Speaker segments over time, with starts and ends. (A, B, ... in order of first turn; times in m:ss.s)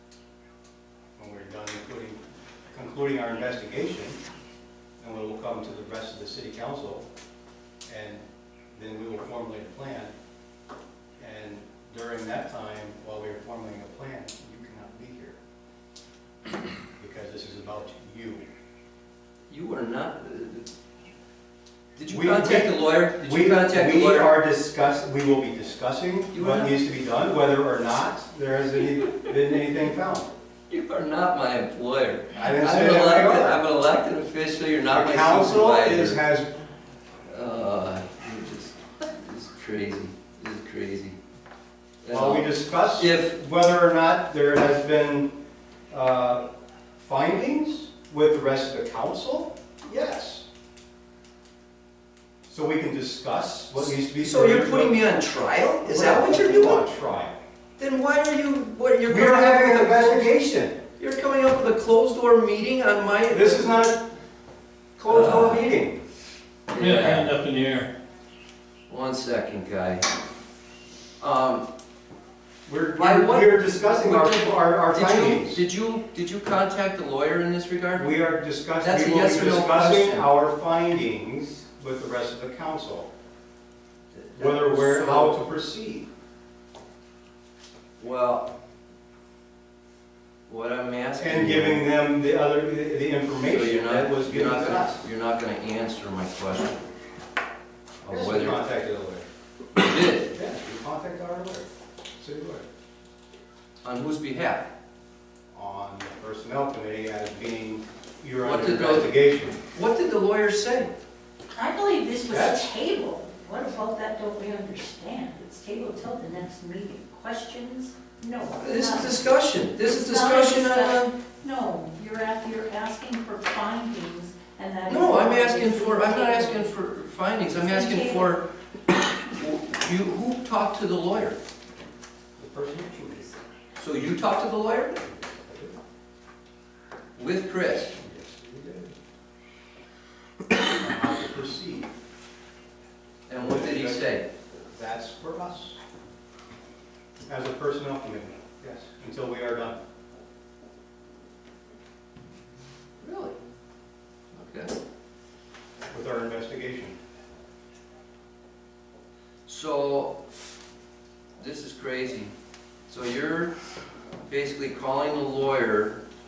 0:01.2-0:02.2 A
0:02.7-0:04.2 A
0:05.0-0:07.1 A
0:07.9-0:10.1 A
0:11.2-0:15.4 A
0:17.0-0:18.4 A
0:19.5-0:20.7 B
0:22.0-0:24.4 B
0:22.1-0:30.3 A
0:26.3-0:26.8 B
0:30.7-0:36.2 B
0:32.3-0:33.6 A
0:34.9-0:36.5 A
0:37.2-0:41.2 B
0:42.0-0:43.3 B
0:42.1-0:45.3 A
0:45.9-0:46.4 A
0:47.0-0:50.4 A
0:52.5-0:55.2 A
0:53.8-0:56.9 B
0:55.8-0:57.4 A
0:57.8-1:00.3 B
0:59.1-1:00.8 A
1:01.0-1:03.9 B
1:03.3-1:04.0 A
1:05.0-1:06.0 A
1:05.1-1:05.6 B
1:06.7-1:07.3 B
1:08.9-1:10.1 B
1:11.2-1:11.7 B
1:12.7-1:15.6 A
1:13.0-1:18.2 B
1:18.0-1:23.1 A
1:18.8-1:20.3 B
1:24.1-1:25.4 B
1:24.4-1:26.1 A
1:28.0-1:28.5 B
1:30.5-1:31.9 B
1:31.2-1:35.1 A
1:33.4-1:36.9 B
1:38.0-1:38.6 B
1:38.0-1:39.3 A
1:39.8-1:40.3 B
1:40.3-1:41.7 A
1:42.2-1:42.6 A
1:43.8-1:44.7 B
1:45.5-1:49.6 A
1:48.4-1:49.2 B
1:49.7-1:50.9 B
1:51.5-1:59.3 C
1:52.3-1:52.6 A
1:58.6-2:01.1 B
1:59.8-2:06.8 C
2:04.9-2:11.4 B
2:07.5-2:08.4 C
2:12.4-2:13.4 A
2:13.8-2:15.0 B
2:15.3-2:15.8 A
2:17.2-2:18.0 B
2:18.0-2:18.9 A
2:20.7-2:21.9 A
2:23.3-2:24.3 B
2:23.3-2:24.2 A
2:24.7-2:25.8 A
2:27.3-2:29.8 A
2:33.0-2:33.4 B
2:34.3-2:34.7 B
2:35.9-2:37.0 A
2:39.5-2:40.3 B
2:41.4-2:42.3 B
2:42.9-2:43.5 B
2:44.2-2:46.0 B